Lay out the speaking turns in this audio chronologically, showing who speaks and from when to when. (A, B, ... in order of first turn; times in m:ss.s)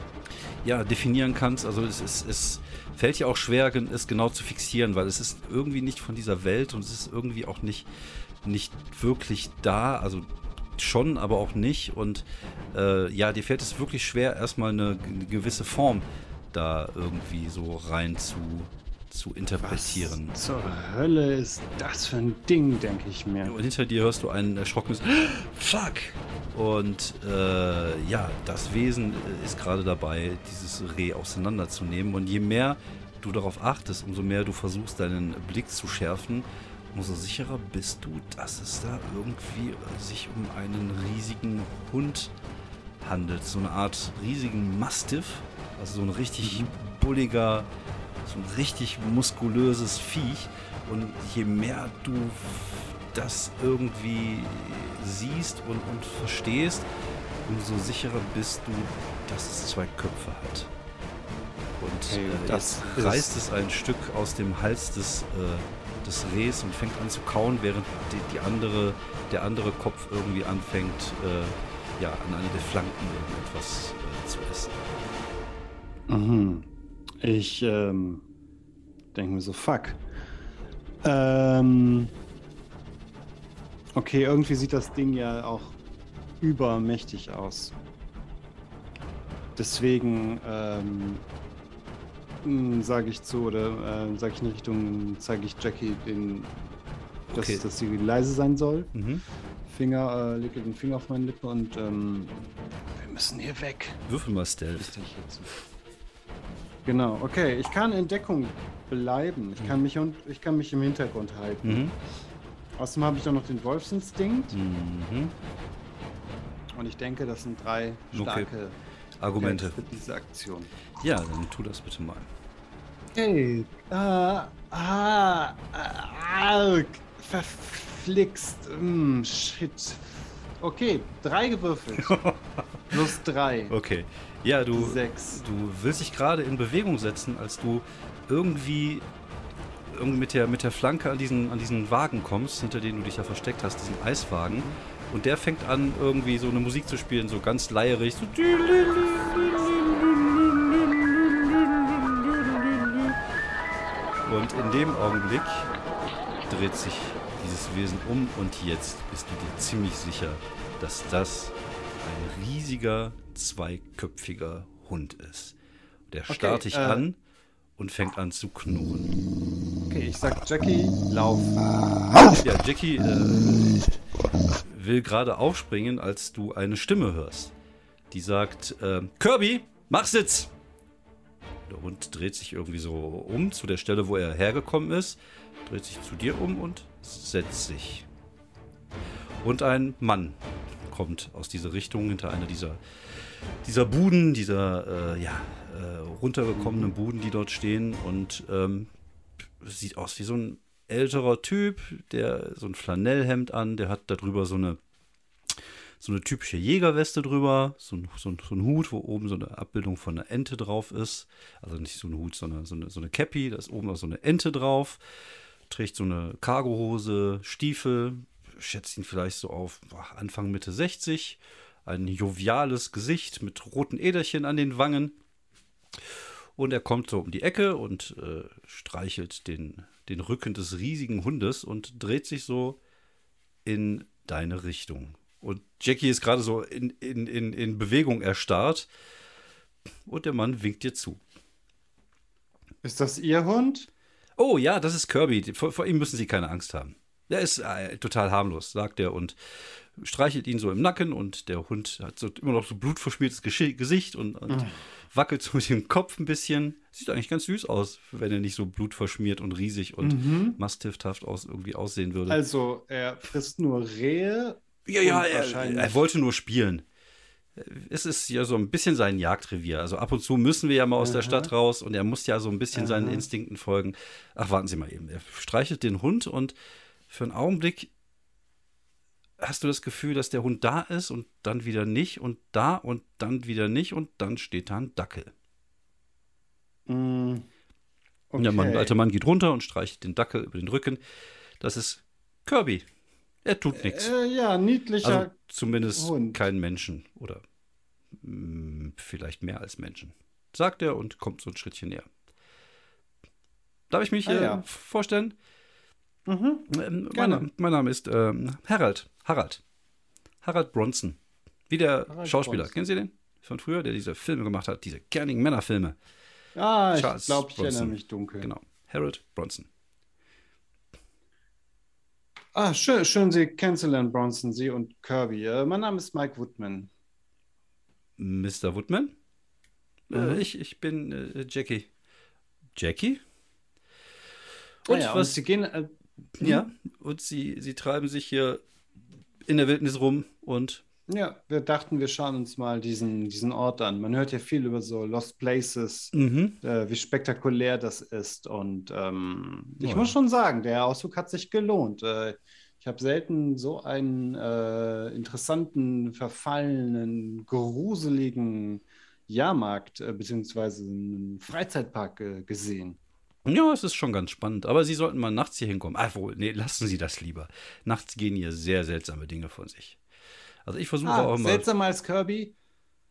0:00.6-0:07.9 A
0:08.4-0:20.3 A
0:19.6-0:23.5 B
0:23.4-0:42.3 A
0:43.0-0:47.7 A
0:46.4-0:46.7 B
0:48.2-0:56.9 A
0:57.4-1:00.7 A
1:01.8-1:14.9 A
1:02.1-1:03.3 B
1:16.1-1:16.7 B
1:17.2-1:18.2 B
1:19.1-1:20.0 B
1:21.0-1:22.1 B
1:23.9-1:25.8 B
1:26.4-1:27.7 B
1:29.6-1:31.2 B
1:32.4-1:36.7 B
1:37.3-1:37.6 A
1:37.3-1:38.9 B
1:38.9-1:39.2 A
1:39.7-1:42.4 B
1:43.0-1:44.0 B
1:44.1-1:44.9 A
1:44.8-1:45.5 B
1:46.8-1:51.9 B
1:51.6-1:51.9 A
1:52.8-1:54.6 B
1:54.5-1:55.3 A
1:56.8-1:58.8 B
1:58.1-1:58.5 A
1:59.2-1:59.8 A
1:59.4-2:00.7 B
2:01.0-2:02.3 A
2:03.1-2:12.2 B
2:12.0-2:13.0 A
2:12.9-2:13.7 B
2:13.7-2:19.1 A
2:14.7-2:15.4 B
2:19.9-2:33.2 A
2:24.5-2:24.8 B
2:34.2-2:35.7 A
2:36.5-2:45.6 A
2:46.1-2:47.2 A
2:46.3-2:47.0 B
2:47.8-2:49.1 A
2:49.9-2:52.2 B
2:52.3-2:53.9 A
2:54.6-2:57.5 A
2:58.1-3:00.5 A
3:01.7-3:08.1 A
3:09.4-3:24.8 A
3:16.5-3:16.9 B
3:25.5-3:35.0 A
3:35.7-3:45.2 A
3:46.0-3:52.8 A
3:53.6-3:58.9 A
4:00.0-4:01.2 A
4:02.8-4:03.9 B
4:04.4-4:22.4 A
4:14.5-4:14.8 B
4:20.0-4:20.6 B
4:22.3-4:26.0 B
4:24.9-4:26.8 A
4:27.6-4:36.5 A
4:31.0-4:31.5 B
4:32.7-4:33.2 B
4:37.1-4:37.9 A
4:39.4-4:45.3 A
4:46.9-4:47.5 B
4:48.3-4:48.9 B
4:48.4-4:51.0 A
4:51.6-4:52.8 A
4:53.4-4:54.1 A
4:53.7-4:55.3 B
4:55.0-4:57.4 A
4:55.9-4:56.4 B
4:58.1-5:02.1 A
5:03.9-5:05.4 A
5:04.2-5:04.6 B
5:06.3-5:07.5 B
5:06.7-5:09.6 A
5:10.4-5:16.0 A
5:12.1-5:12.7 B
5:16.5-5:18.5 B
5:16.9-5:19.7 A
5:22.5-5:26.9 B
5:28.2-5:29.2 A
5:30.1-5:31.9 A
5:30.1-5:30.4 B
5:32.8-5:33.2 A
5:34.8-5:35.4 A
5:34.9-5:36.6 B
5:36.4-5:38.6 A
5:39.4-5:40.8 A
5:41.1-6:03.0 B
5:46.1-5:46.6 A
5:49.8-5:50.1 A
6:03.4-6:10.0 A
6:10.6-6:11.7 A
6:11.0-6:12.5 B